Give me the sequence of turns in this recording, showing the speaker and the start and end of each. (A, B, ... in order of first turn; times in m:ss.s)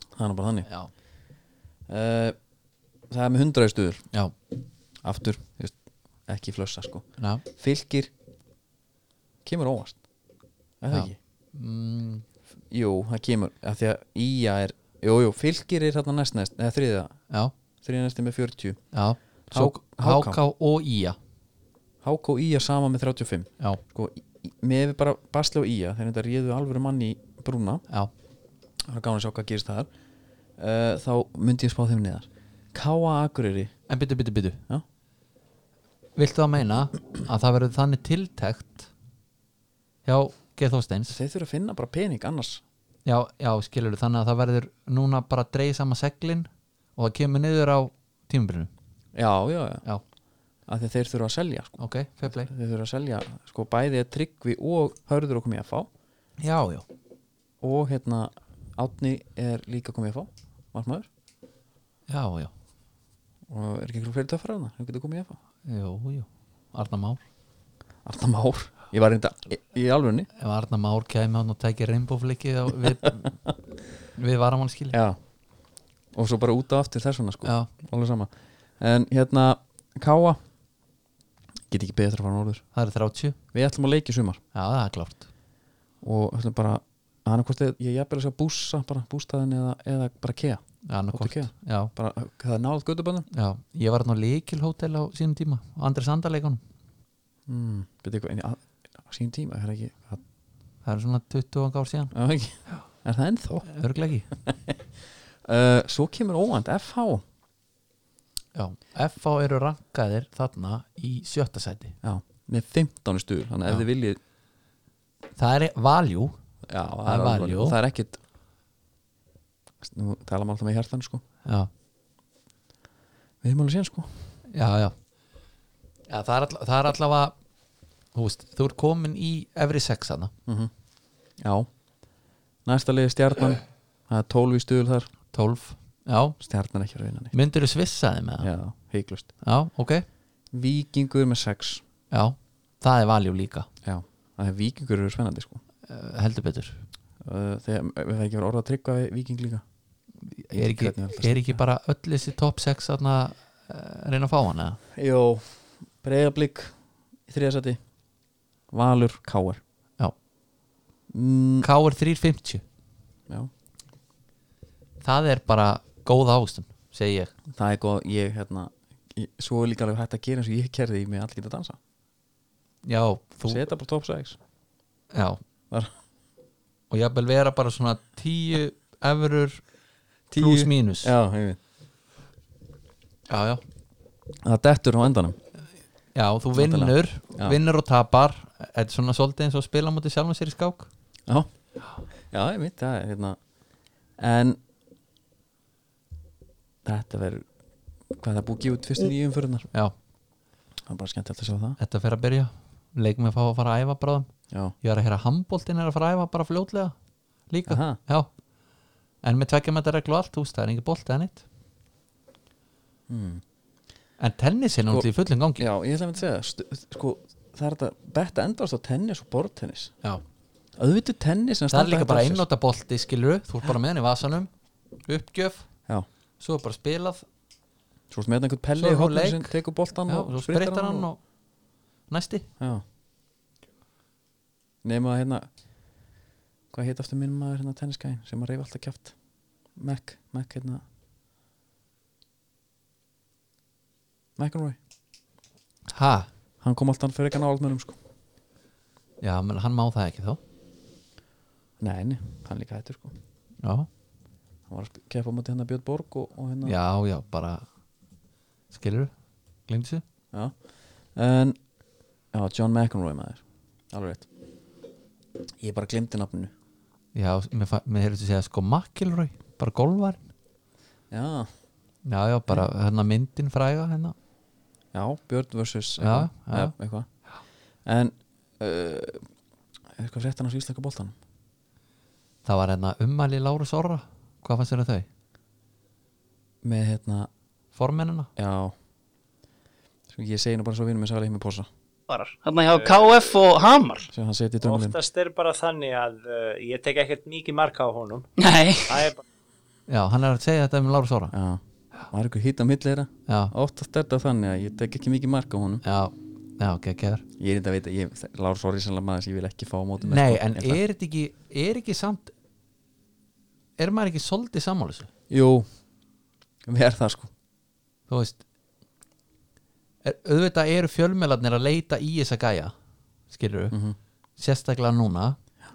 0:00.2-0:00.7 A
0:00.7-0:00.9 B
0:01.9-0:02.4 A
0:03.1-0:04.1 A
0:05.0-0:05.8 A
0:06.3-0:08.1 A
0:07.2-0:07.4 B
0:09.4-0:10.0 A
0:10.8-0:11.2 A
0:10.9-0:12.2 B
0:12.7-0:17.2 A
0:17.8-0:18.8 A
0:18.9-0:21.2 B
0:19.5-0:20.4 A
0:22.0-0:27.8 A
0:28.8-0:29.9 A
0:30.6-0:33.7 A
0:33.9-0:34.6 B
0:36.2-0:38.9 B
0:40.0-0:41.2 B
0:41.1-0:42.6 A
0:43.0-0:48.7 B
0:49.2-0:49.9 A
0:50.7-0:55.9 A
0:51.8-0:52.5 B
0:56.4-0:56.9 B
0:57.6-1:01.1 A
1:02.1-1:02.5 B
1:03.5-1:05.4 A
1:05.6-1:07.2 B
1:08.0-1:10.3 A
1:10.4-1:13.4 B
1:14.2-1:15.0 B
1:14.9-1:15.2 A
1:16.1-1:20.4 A
1:17.4-1:17.7 B
1:21.7-1:22.6 A
1:22.7-1:23.4 B
1:23.5-1:24.4 A
1:24.5-1:25.3 B
1:26.0-1:30.6 A
1:30.9-1:31.9 B
1:31.1-1:33.3 A
1:33.3-1:36.6 B
1:37.5-1:40.2 A
1:40.8-1:42.1 B
1:42.1-1:43.7 A
1:43.7-1:44.3 B
1:45.4-1:47.2 A
1:48.6-1:52.0 B
1:52.0-1:54.2 A
1:55.4-1:56.4 B
1:56.7-1:58.2 A
1:57.0-1:57.8 B
1:59.8-2:01.2 A
2:01.4-2:01.7 B
2:03.4-2:04.1 A
2:04.5-2:05.0 B
2:06.1-2:07.4 B
2:08.1-2:10.3 B
2:11.4-2:11.7 A
2:12.7-2:15.1 A
2:15.3-2:16.4 B
2:16.4-2:17.3 A
2:17.3-2:18.5 B
2:18.4-2:19.3 A
2:19.4-2:20.0 B
2:20.5-2:21.8 A
2:22.1-2:23.7 B
2:23.8-2:25.6 A
2:25.9-2:26.8 B
2:27.2-2:29.6 A
2:30.2-2:34.8 B
2:30.5-2:31.6 A
2:35.0-2:36.8 A
2:37.3-2:37.8 A
2:38.7-2:39.6 A
2:41.1-2:41.7 A
2:41.6-2:42.6 B
2:45.0-2:47.3 B
2:47.5-2:51.8 A
2:52.8-2:53.6 B
2:53.4-2:54.4 A
2:55.1-2:55.4 B
2:56.9-2:59.6 B
3:00.3-3:01.6 A
3:00.4-3:01.1 B
3:03.3-3:03.6 B
3:04.4-3:05.4 A
3:06.2-3:10.9 B
3:06.5-3:07.6 A
3:12.2-3:13.4 A
3:14.2-3:14.6 A
3:16.8-3:17.4 A
3:18.2-3:19.7 A
3:20.9-3:21.8 A
3:21.8-3:24.3 B
3:24.8-3:27.0 B
3:27.5-3:28.3 B
3:27.7-3:28.0 A
3:29.2-3:31.4 B
3:33.1-3:33.4 A
3:34.2-3:35.7 B
3:35.6-3:40.0 A
3:40.8-3:42.4 A
3:41.7-3:44.5 B
3:45.0-3:45.7 B
3:46.4-3:47.3 B
3:48.1-3:51.1 A
3:48.8-3:49.6 B
3:50.1-3:51.2 B
3:52.1-3:52.5 B
3:54.8-3:55.5 A
3:56.7-3:59.2 A
3:59.8-4:00.8 A
4:04.4-4:04.8 A
4:05.9-4:06.3 B
4:06.6-4:08.0 A
4:09.2-4:10.4 B
4:11.8-4:13.1 A
4:13.6-4:13.9 B
4:14.7-4:16.8 A
4:16.6-4:17.6 B
4:18.7-4:19.1 B
4:19.7-4:20.0 B
4:20.3-4:20.6 A
4:21.1-4:21.6 A
4:22.3-4:24.3 A
4:25.6-4:26.5 A
4:27.1-4:30.2 B
4:31.1-4:31.5 A
4:32.0-4:34.2 B
4:34.9-4:37.1 A
4:36.0-4:36.7 B
4:37.8-4:39.3 A
4:40.0-4:41.2 A
4:42.4-4:45.1 B
4:46.6-4:47.3 A
4:47.8-4:48.3 B
4:48.4-4:48.7 A
4:50.1-4:51.7 A
4:52.1-4:54.1 C
4:52.7-4:53.2 D
4:54.1-4:55.0 A
4:54.6-4:58.3 D
4:58.4-4:59.1 C
4:58.9-4:59.2 D
4:59.9-5:01.3 B
5:01.3-5:05.8 A
5:03.3-5:03.5 B
5:05.8-5:07.2 B
5:07.4-5:10.8 A
5:10.0-5:12.3 B
5:13.8-5:15.1 B
5:15.3-5:15.7 A
5:16.7-5:17.3 A
5:18.1-5:18.4 B
5:20.0-5:22.7 B
5:23.3-5:23.8 B
5:23.7-5:24.0 A
5:24.4-5:25.4 B